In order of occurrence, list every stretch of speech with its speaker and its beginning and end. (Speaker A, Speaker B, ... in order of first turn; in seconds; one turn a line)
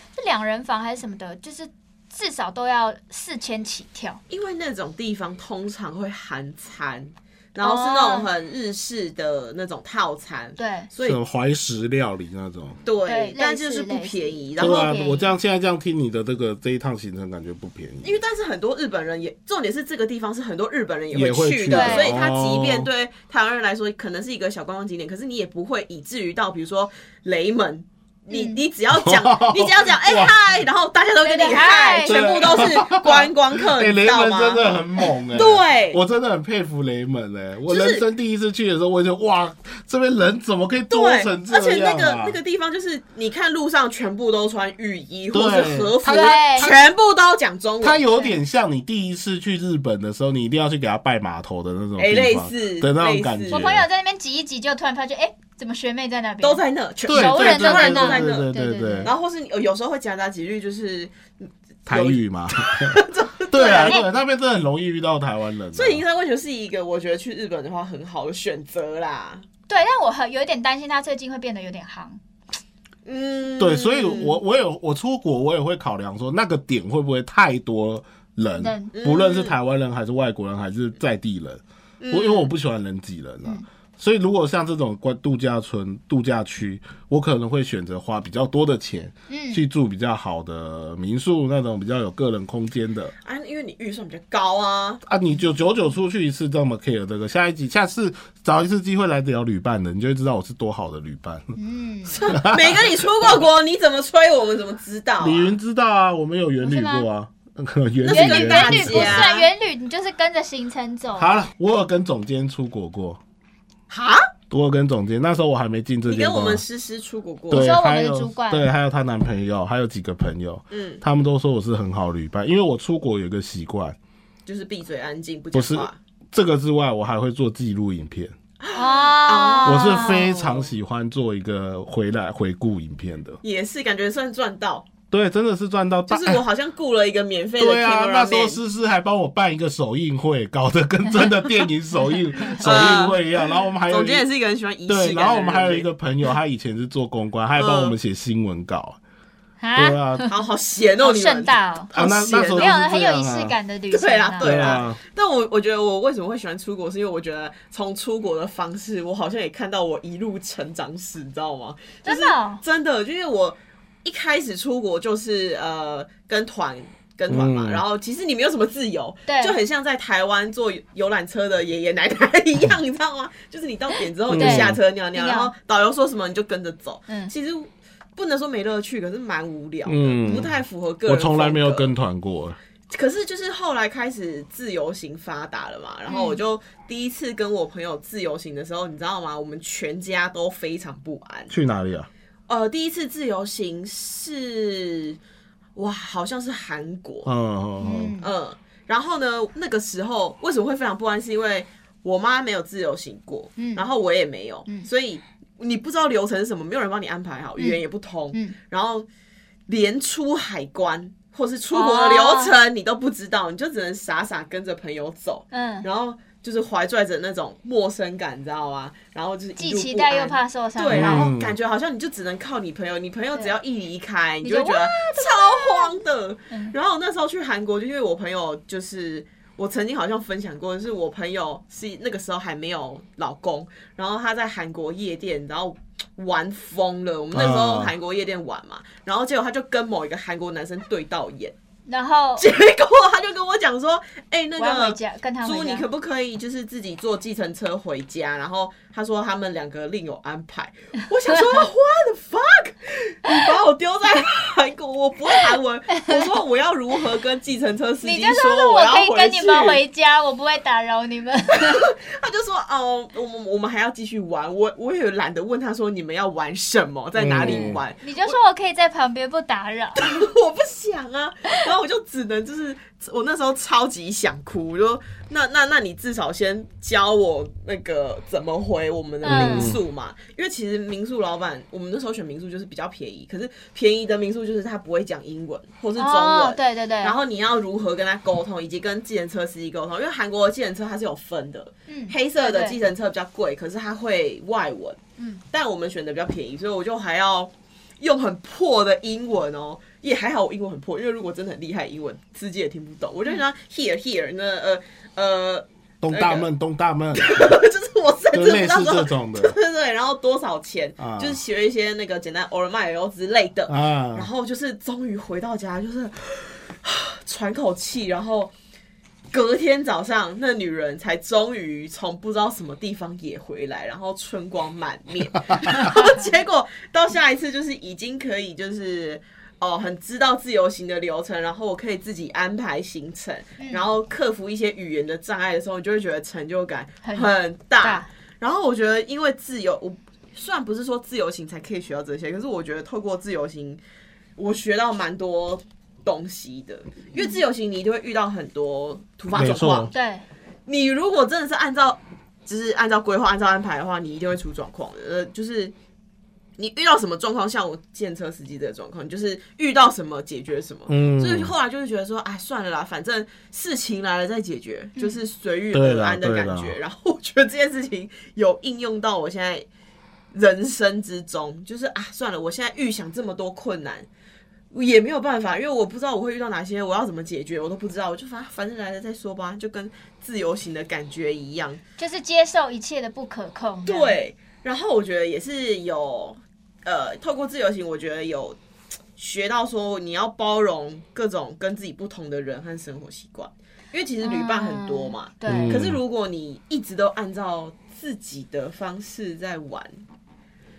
Speaker A: 0.2-4.2
Speaker B: 4.3-11.2
Speaker A: 7.6-8.3
Speaker A: 10.6-10.9
Speaker C: 11.0-12.8
Speaker B: 12.8-14.9
Speaker A: 13.1-15.3
Speaker C: 14.6-18.1
Speaker B: 18.0-36.0
Speaker C: 21.1-22.9
Speaker A: 21.7-22.2
Speaker A: 28.3-28.6
Speaker C: 28.9-30.3
Speaker A: 31.2-32.7
Speaker C: 32.0-42.4
Speaker B: 37.7-38.0
Speaker B: 40.9-48.0
Speaker C: 45.3-46.7
Speaker A: 46.1-46.8
Speaker C: 47.8-53.9
Speaker B: 52.0-53.6
Speaker A: 53.5-59.1
Speaker B: 56.4-58.5
Speaker C: 57.1-59.1
Speaker B: 59.0-64.0
Speaker C: 61.9-66.0
Speaker A: 63.6-64.1
Speaker B: 65.7-69.5
Speaker A: 69.7-72.2
Speaker B: 73.0-74.4
Speaker C: 73.6-93.1
Speaker A: 78.6-78.9
Speaker B: 78.9-79.6
Speaker B: 82.0-82.5
Speaker A: 89.3-89.6
Speaker B: 93.2-95.0
Speaker C: 95.1-101.5
Speaker A: 101.6-102.3
Speaker B: 102.1-105.5
Speaker C: 102.3-103.3
Speaker C: 105.2-109.3
Speaker A: 106.6-107.1
Speaker B: 108.0-109.5
Speaker A: 108.1-111.4
Speaker C: 111.2-113.2
Speaker B: 113.9-114.3
Speaker C: 114.5-116.6
Speaker B: 116.1-117.7
Speaker C: 117.5-124.0
Speaker A: 117.5-118.7
Speaker B: 120.7-121.0
Speaker B: 124.5-126.0
Speaker C: 125.5-128.3
Speaker B: 128.6-130.7
Speaker A: 128.7-130.3
Speaker C: 129.7-133.4
Speaker B: 133.4-134.9
Speaker C: 135.1-136.4
Speaker B: 136.1-138.6
Speaker C: 137.6-144.3
Speaker A: 142.4-142.7
Speaker B: 142.6-143.2
Speaker B: 143.9-145.9
Speaker C: 144.9-149.0
Speaker B: 147.6-148.0
Speaker A: 149.6-150.4
Speaker C: 149.8-150.3
Speaker B: 150.3-152.8
Speaker A: 151.0-154.8
Speaker C: 151.9-153.6
Speaker B: 153.9-181.9
Speaker C: 154.4-155.0
Speaker A: 162.0-162.6
Speaker C: 167.3-167.8
Speaker A: 169.3-169.6
Speaker C: 174.3-174.8
Speaker A: 174.3-175.5
Speaker C: 179.9-180.5
Speaker C: 181.1-182.6
Speaker B: 182.9-191.5
Speaker A: 186.1-186.4
Speaker C: 191.5-192.1
Speaker B: 192.5-195.2
Speaker B: 195.8-197.3
Speaker C: 197.2-198.2
Speaker A: 197.8-198.3
Speaker B: 198.2-209.1
Speaker A: 203.6-203.8
Speaker B: 209.7-241.5
Speaker A: 211.7-212.6
Speaker A: 215.5-215.9
Speaker A: 219.6-221.3
Speaker C: 220.9-221.6
Speaker A: 224.4-225.9
Speaker C: 237.3-237.9
Speaker A: 241.9-242.5
Speaker B: 242.4-259.8
Speaker A: 244.6-245.9
Speaker A: 251.3-251.6
Speaker A: 255.9-256.3
Speaker A: 258.0-261.9
Speaker B: 261.5-268.4
Speaker C: 267.2-267.8
Speaker A: 267.4-270.1
Speaker B: 270.0-295.0
Speaker A: 279.2-279.8
Speaker C: 279.3-279.8
Speaker A: 286.0-287.2
Speaker A: 291.9-292.8
Speaker A: 295.2-295.4
Speaker B: 295.5-306.5
Speaker C: 306.0-307.6
Speaker B: 307.1-318.5
Speaker C: 308.3-309.6
Speaker C: 311.0-311.4
Speaker C: 313.7-314.3
Speaker B: 319.3-343.8
Speaker A: 333.6-333.9
Speaker A: 337.0-338.1
Speaker B: 344.4-349.9
Speaker C: 349.3-349.9
Speaker A: 349.9-350.2
Speaker B: 350.7-355.7
Speaker B: 356.6-369.7
Speaker C: 360.9-361.5
Speaker C: 365.7-366.8
Speaker B: 370.3-374.1
Speaker B: 374.7-381.8
Speaker A: 382.0-384.2
Speaker B: 383.9-388.6
Speaker B: 389.2-400.0
Speaker A: 394.2-395.8
Speaker C: 395.5-396.0